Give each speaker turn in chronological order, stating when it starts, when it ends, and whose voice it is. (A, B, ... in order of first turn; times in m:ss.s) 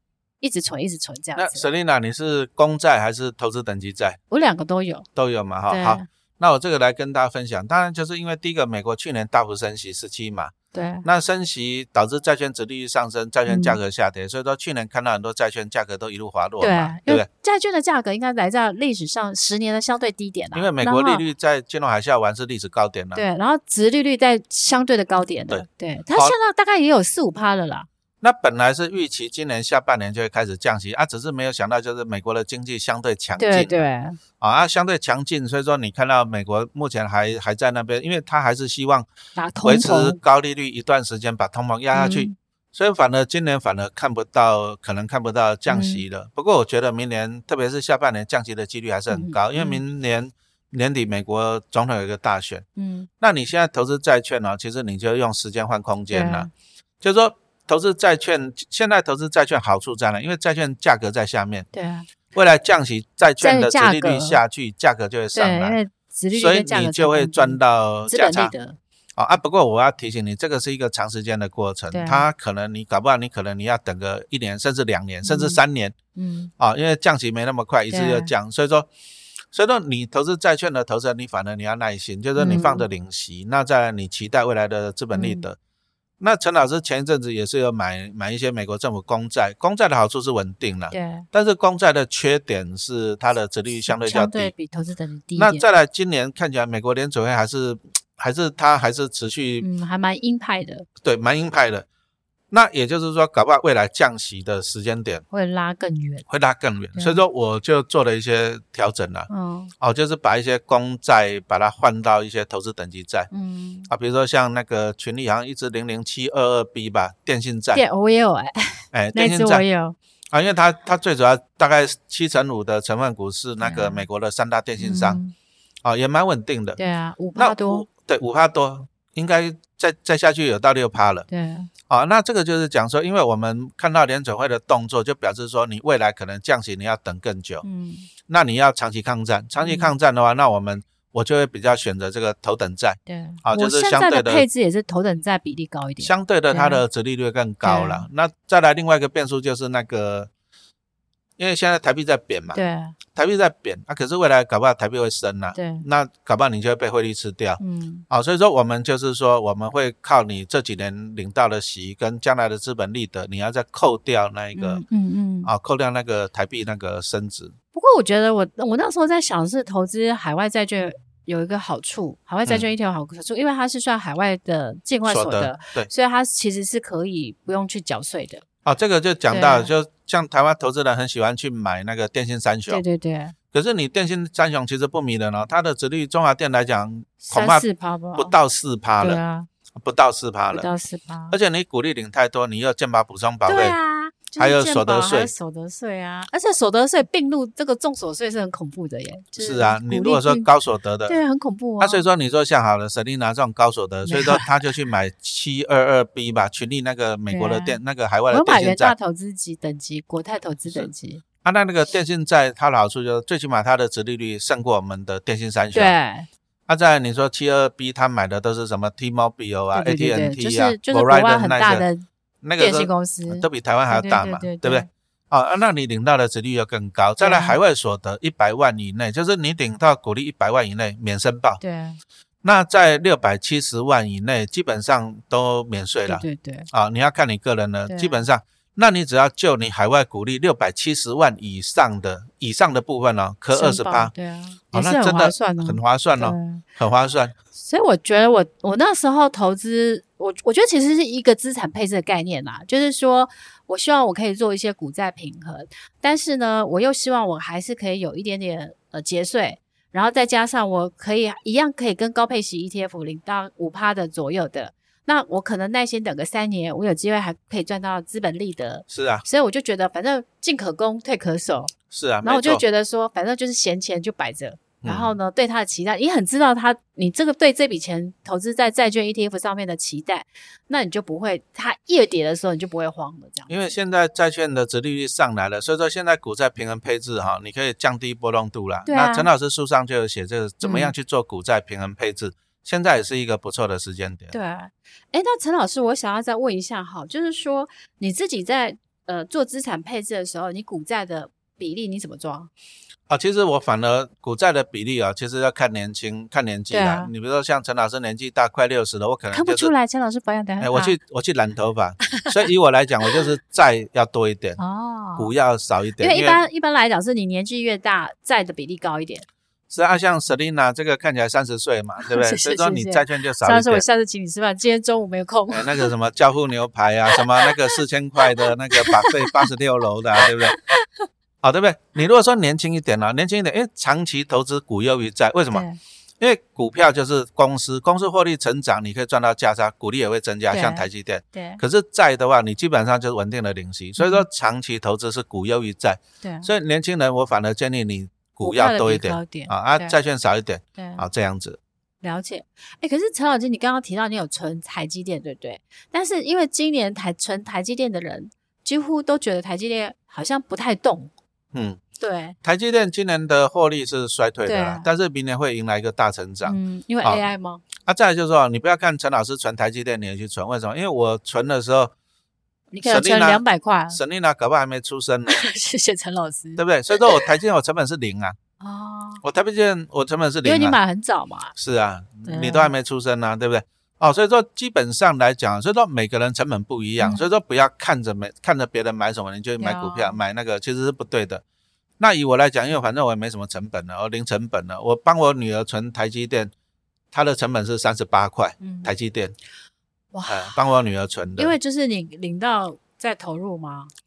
0:00.4-0:01.7 A
0:01.4-0:04.2 B
0:04.3-0:05.1 A
0:05.2-0:10.5 B
0:05.7-0:06.0 A
0:10.7-0:11.1 A
0:11.0-0:17.3 B
0:13.5-0:13.8 A
0:16.6-0:21.2 A
0:20.5-0:23.2 B
0:23.2-0:27.9 A
0:25.5-0:26.4 B
0:28.2-0:33.8 B
0:33.4-0:34.2 A
0:34.4-0:39.1 B
0:39.4-0:40.2 A
0:39.6-0:52.7 B
0:41.9-0:42.4 A
0:45.7-0:46.0 A
0:49.1-0:49.8 A
0:52.8-0:53.1 A
0:53.2-0:56.5 B
0:56.1-0:56.5 A
0:57.0-1:01.7 B
1:01.7-1:02.1 A
1:02.3-1:05.8 B
1:03.4-1:04.4 A
1:05.3-1:08.8 A
1:06.3-1:08.5 B
1:09.2-1:16.0 B
1:11.9-1:12.3 A
1:15.2-1:15.6 A
1:16.2-1:16.5 A
1:16.6-1:18.9 B
1:17.9-1:18.3 A
1:19.5-1:25.6 B
1:22.4-1:22.8 A
1:25.1-1:25.5 A
1:26.2-1:34.5 B
1:30.9-1:31.3 A
1:33.8-1:35.6 A
1:35.4-1:39.6 B
1:39.6-1:40.9 A
1:41.0-1:41.9 B
1:42.5-1:45.2 B
1:45.3-1:46.3 A
1:46.3-1:49.3 B
1:47.0-1:47.2 A
1:49.3-1:49.7 A
1:49.8-1:53.3 B
1:53.3-1:53.9 A
1:53.9-1:57.8 B
1:57.7-2:00.0 A
1:58.9-1:59.6 B
2:00.3-2:05.2 B
2:03.6-2:04.1 A
2:04.8-2:05.3 A
2:05.8-2:06.8 B
2:06.8-2:07.9 A
2:07.4-2:11.3 B
2:11.3-2:11.7 A
2:11.9-2:17.6 B
2:17.6-2:18.1 A
2:18.3-2:24.5 B
2:19.6-2:19.9 A
2:23.1-2:26.8 A
2:26.0-2:30.3 B
2:27.6-2:28.1 A
2:31.4-2:32.6 B
2:32.5-2:33.0 A
2:33.1-2:44.8 B
2:35.5-2:35.8 A
2:37.6-2:38.0 A
2:44.6-2:45.5 A
2:45.4-2:47.6 B
2:47.7-2:58.4 A
2:55.1-2:55.9 B
2:58.6-3:02.8 B
2:59.3-2:59.7 A
3:02.7-3:03.4 A
3:03.5-3:09.2 B
3:07.2-3:08.4 A
3:09.0-3:09.5 A
3:09.8-3:10.7 B
3:10.5-3:11.4 A
3:11.3-3:13.8 B
3:13.5-3:20.5 A
3:14.4-3:15.3 B
3:19.4-3:21.2 B
3:21.1-3:22.0 A
3:21.8-3:29.0 B
3:24.1-3:24.5 A
3:27.3-3:27.8 A
3:28.3-3:31.2 A
3:31.4-3:35.9 B
3:35.7-3:36.3 A
3:36.7-3:41.9 B
3:39.7-3:42.1 A
3:42.4-3:51.6 B
3:42.6-3:44.9 A
3:47.2-3:47.6 A
3:51.6-3:52.0 A
3:52.4-4:04.1 B
3:56.1-3:56.7 A
3:57.9-3:58.3 A
4:03.5-4:06.6 A
4:04.7-4:07.3 B
4:07.5-4:43.6 A
4:28.9-4:29.2 B
4:31.9-4:32.6 B
4:34.8-4:35.2 B
4:43.5-4:54.4 B
4:48.9-4:49.3 A
4:50.6-4:50.9 A
4:54.3-5:02.5 A
5:03.1-5:09.7 B
5:06.7-5:07.1 A
5:09.3-5:11.0 A
5:10.6-5:14.6 B
5:14.6-5:15.3 A
5:15.2-5:16.4 B
5:16.0-5:19.3 A
5:19.7-5:23.8 B
5:22.0-5:25.9 A
5:25.5-5:30.6 B
5:27.1-5:27.5 A
5:28.2-5:29.5 A
5:30.2-5:31.1 A
5:31.4-5:35.6 B
5:35.5-5:35.8 A
5:36.2-5:51.6 B
5:40.5-5:41.6 A
5:44.0-5:44.2 A
5:46.2-5:46.5 A
5:48.4-5:50.0 A
5:50.8-5:51.0 A
5:52.0-6:01.1 A
6:01.5-6:01.8 B
6:02.0-6:02.4 A
6:02.4-6:07.2 B
6:04.5-6:04.9 A
6:06.4-6:07.6 A
6:07.9-6:11.9 B
6:12.7-6:14.0 A
6:12.8-6:15.4 B
6:15.3-6:17.3 A
6:16.6-6:18.4 B
6:18.6-6:19.2 A
6:19.2-6:20.8 B
6:20.4-6:21.5 A
6:21.6-6:31.4 B
6:22.2-6:22.7 A
6:27.0-6:27.3 A
6:29.6-6:30.2 A
6:32.0-6:36.5 B
6:37.1-6:39.4 B
6:38.6-6:38.9 A
6:40.1-6:40.6 A
6:40.3-6:41.6 B
6:41.4-6:43.9 A